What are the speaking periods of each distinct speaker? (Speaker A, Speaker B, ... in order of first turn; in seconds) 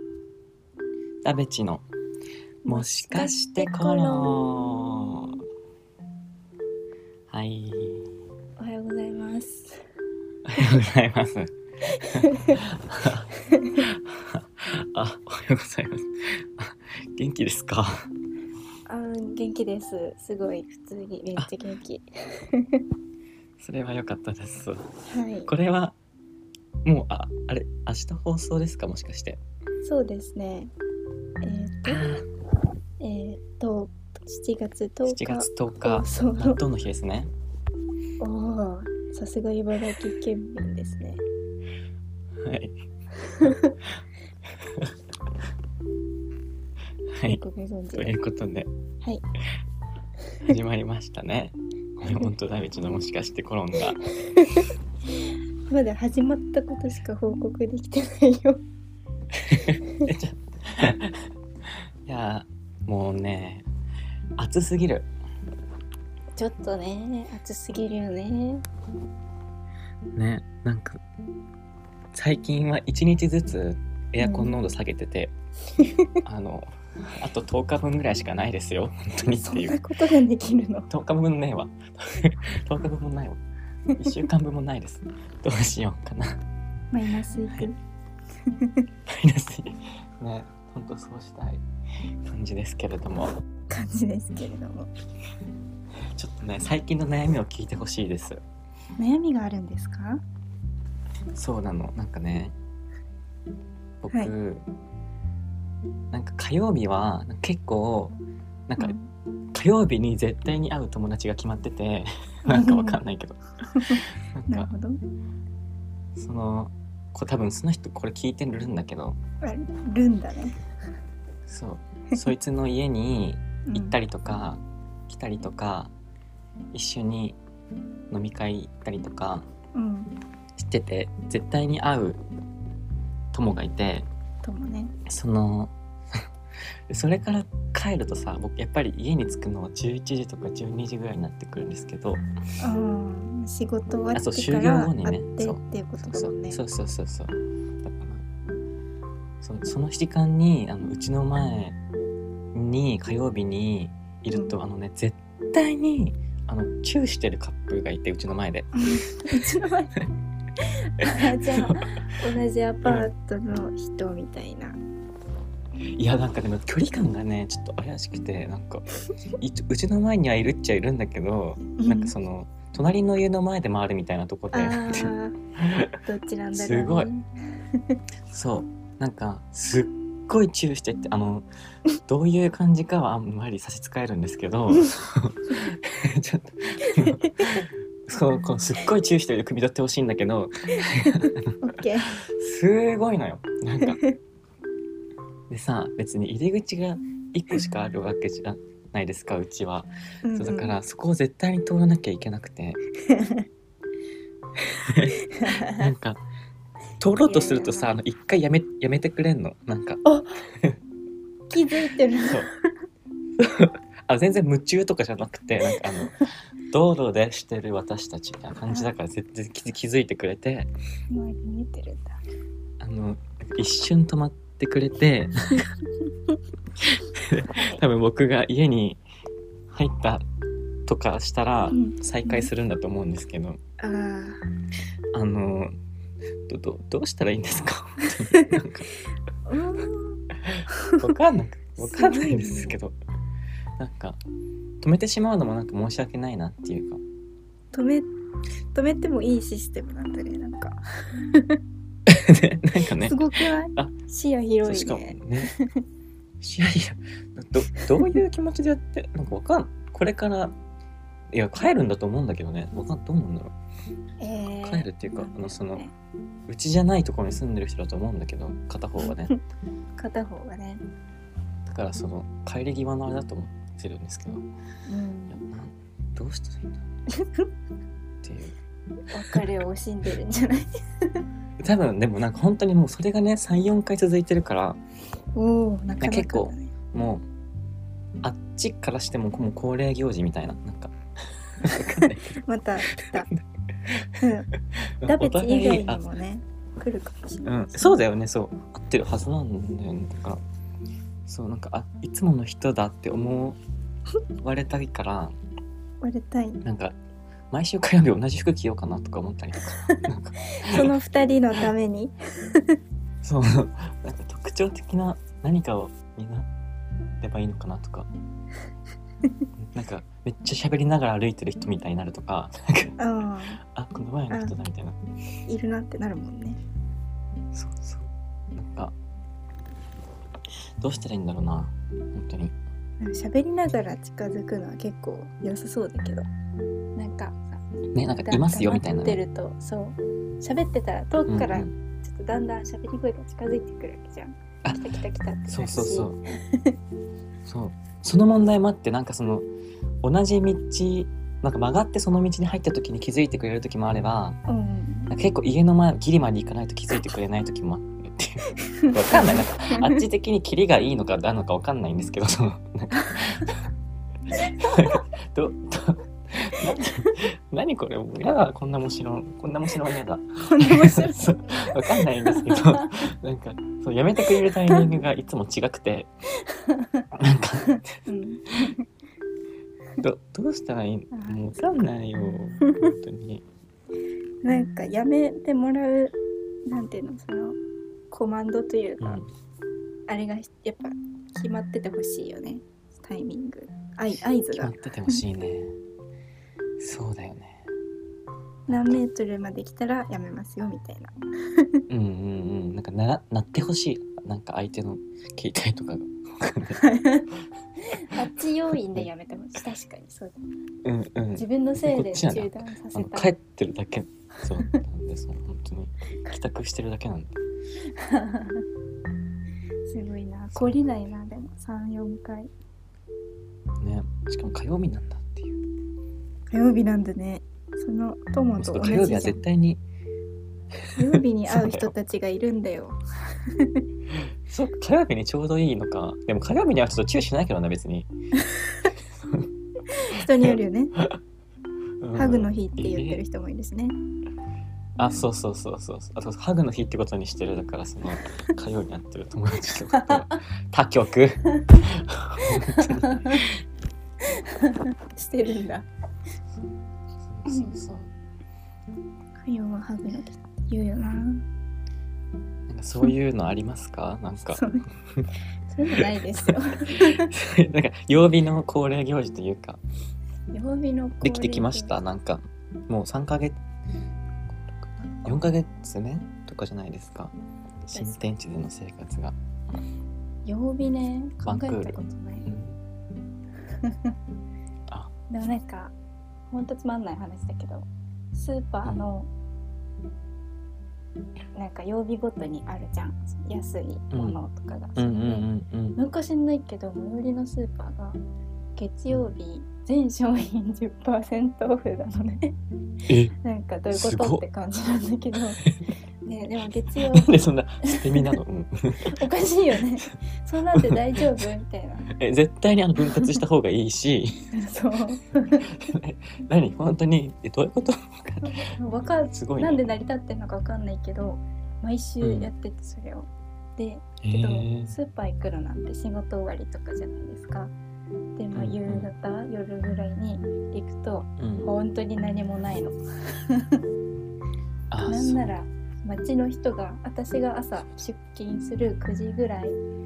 Speaker A: 1.2-1.8, 2.6-5.3, 7.3-8.1, 10.5-11.5, 12.1-18.1, 23.6-24.9, 25.5-26.0, 26.9-29.4, 31.9-32.2, 35.1-37.3, 42.4-42.8, 44.6-44.9, 48.0-48.7, 50.4-54.0, 59.5-61.2, 62.1-63.7, 64.4-65.1, 70.2-71.0, 72.1-75.3, 76.2-79.8, 80.9-83.4, 84.0-86.4, 89.1-91.6, 92.3-93.3, 96.1-98.4, 101.3-102.5, 104.0-104.7, 106.1-108.2, 108.7-108.9, 109.5-114.7, 116.2-119.2, 121.5-125.9, 126.7-127.4, 128.1-129.5, 130.6-132.2, 133.3-134.1, 135.1-135.7, 136.9-142.2, 144.1-148.2, 149.4-151.8, 152.5-159.4, 161.0-161.7, 165.9-175.9, 176.5-177.1, 178.3-181.5, 182.1-191.6, 192.3-194.0, 195.5-202.8, 204.6-205.2, 205.7-206.2, 207.0-210.0, 213.4-220.7, 222.8-225.7, 226.8-229.0, 229.7-230.2, 230.9-233.6, 235.1-235.7, 236.5-238.9, 240.5-243.0, 243.8-244.2, 244.8-247.0, 252.1-253.2, 254.6-255.5, 256.4-260.6, 261.3-263.5, 264.6-265.8, 266.5-269.3, 271.7-274.4, 275.3-276.9, 278.2-278.6, 281.6-284.8, 286.0-287.2, 288.2-290.9, 291.6-292.4, 292.9-294.2, 294.8-296.0, 297.4-300.4, 301.3-303.6, 304.4-305.4, 306.6-306.9, 307.5-310.9, 313.2-316.5, 317.2-318.1, 319.7-322.9, 323.8-325.0, 327.5-328.9, 330.8-332.6, 337.9-339.2, 341.3-341.7, 345.5-346.2, 347.5-349.5, 350.0-354.4, 355.1-363.6, 364.6-376.1, 377.1-377.9, 380.0-383.4, 389.0-389.3, 394.5-395.7, 396.8-397.7, 398.7-399.0, 401.9-406.8, 410.8-417.4, 423.8-425.6, 428.6-429.8, 431.0-431.9, 434.5-438.1, 440.2-441.1, 442.0-443.2, 445.0-453.6, 457.2-458.1, 462.7-464.6, 466.9-469.8, 471.2-473.6, 474.6-477.3, 477.9-479.4, 481.4-482.8, 495.0-496.0, 503.1-503.3, 503.9-504.4, 507.0-509.1, 510.7-511.5, 512.1-514.5, 515.6-518.7, 519.3-520.0, 522.2-522.5, 524.2-524.9, 528.5-529.1, 531.4-531.7, 534.9-535.5
Speaker B: 2.7-4.3, 8.6-9.8, 11.9-12.6, 13.5-13.8, 18.9-22.8, 25.1-25.5, 29.8-30.7, 31.4-32.1, 33.0-36.6, 38.2-41.2, 43.4-43.7, 47.2-48.1, 52.0-52.3, 54.3-54.6, 55.7-58.6, 66.4-68.6, 74.2-74.6, 75.8-76.1, 79.3-80.9, 86.9-87.8, 88.5-88.8, 93.7-94.9, 99.0-100.2, 108.8-109.1, 112.5-113.0, 113.7-115.0, 119.4-120.6, 123.7-124.0, 129.8-130.1, 134.4-134.9, 142.6-146.6, 154.3-154.6, 158.8-160.0, 160.6-164.8, 171.8-172.1, 174.5-175.5, 176.0-178.0, 186.9-187.6, 191.2-192.2, 193.8-194.2, 200.2-200.8, 203.0-203.5, 205.3-205.9, 207.2-207.9, 210.1-210.5, 211.5-212.5, 218.7-218.9, 221.1-222.2, 227.5-227.8, 231.7-232.5, 233.8-234.4, 239.5-241.0, 241.8-242.8, 247.7-248.1, 248.7-251.6, 252.8-255.8, 264.2-265.9, 269.1-269.4, 270.0-270.8, 274.9-275.4, 277.1-277.5, 279.1-281.2, 285.4-286.7, 291.9-293.3, 294.2-294.5, 295.1-298.0, 306.0-306.6, 309.7-312.8, 323.0-323.6, 325.5-326.6, 333.0-336.2, 337.0-337.6, 338.2-346.8, 354.5-355.1, 358.9-360.0, 370.5-372.8, 376.5-377.1, 377.7-378.9, 381.1-381.4, 384.4-386.2, 386.7-387.6, 388.1-389.2, 390.1-395.2, 398.7-401.8, 406.8-407.3, 407.8-410.4, 411.4-413.3, 417.9-418.6, 419.9-422.5, 426.5-429.4, 431.0-433.8, 439.9-441.0, 442.1-444.0, 449.9-450.4, 452.5-453.4, 454.3-455.9, 457.5-457.7, 459.4-461.4, 464.5-464.8, 465.7-467.3, 470.5-471.9, 475.3-475.6, 477.9-478.3, 480.4-482.5, 483.8-484.1, 485.3-485.9, 486.5-489.3, 491.6-498.2, 498.8-502.6, 503.4-505.6, 506.2-508.4, 509.1-512.1, 514.5-515.7, 518.5-527.7, 528.4-533.0, 533.5-533.8, 535.0-539.8